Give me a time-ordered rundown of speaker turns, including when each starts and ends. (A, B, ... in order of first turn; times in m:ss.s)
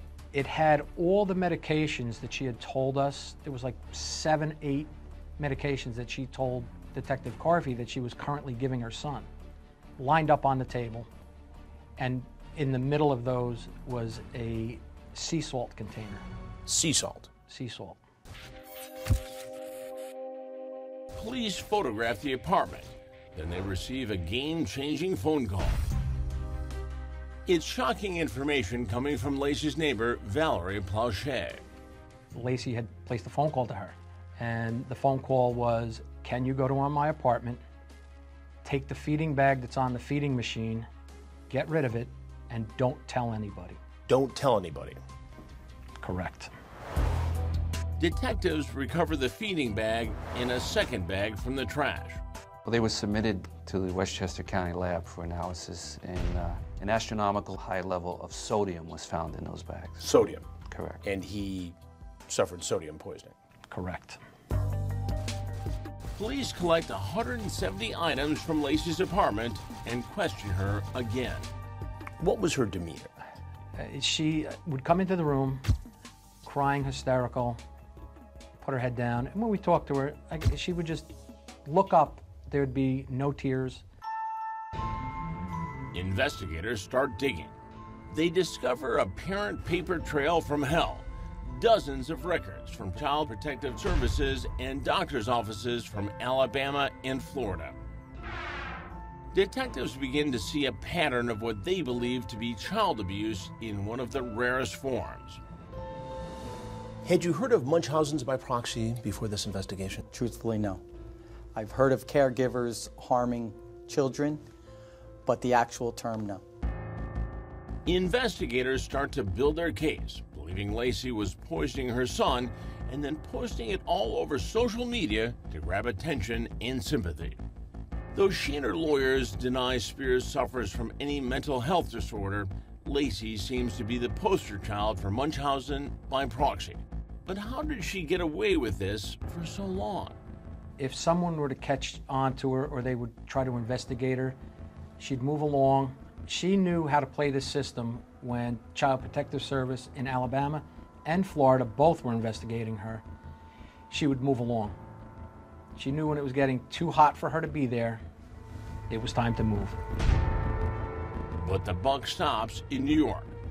0:00.3-0:09.3 A
0:10.0-0:11.1 A
0:12.0-0:16.2 A
0:16.7-0:17.3 B
0:17.5-0:18.0 A
0:21.2-0:25.8 C
0:27.5-0:31.6 C
0:32.3-0:37.6 A
0:38.6-0:40.9 A
0:41.5-0:43.8 A
0:44.1-0:45.0 B
0:46.0-0:46.5 A
0:48.0-0:52.2 C
0:52.6-1:00.1 D
1:00.0-1:00.4 B
1:00.7-1:01.0 D
1:01.0-1:01.8 B
1:02.3-1:03.3 B
1:03.7-1:04.2 A
1:06.2-1:11.5 C
1:12.2-1:13.1 B
1:13.8-1:15.6 A
1:16.4-1:17.6 A
1:18.6-1:21.1 A
1:21.6-1:23.8 A
1:25.9-1:27.5 C
1:28.1-1:37.8 C
1:39.3-1:45.4 C
1:47.0-1:50.0 B
1:50.1-1:50.8 E
1:51.5-1:54.4 E
1:55.2-1:56.4 E
1:57.8-2:07.4 C
2:08.1-2:20.2 C
2:20.8-2:24.4 A
2:25.0-2:33.0 A
2:33.9-2:34.7 A
2:35.8-2:38.0 A
2:38.9-2:39.8 A
2:41.4-2:43.3 C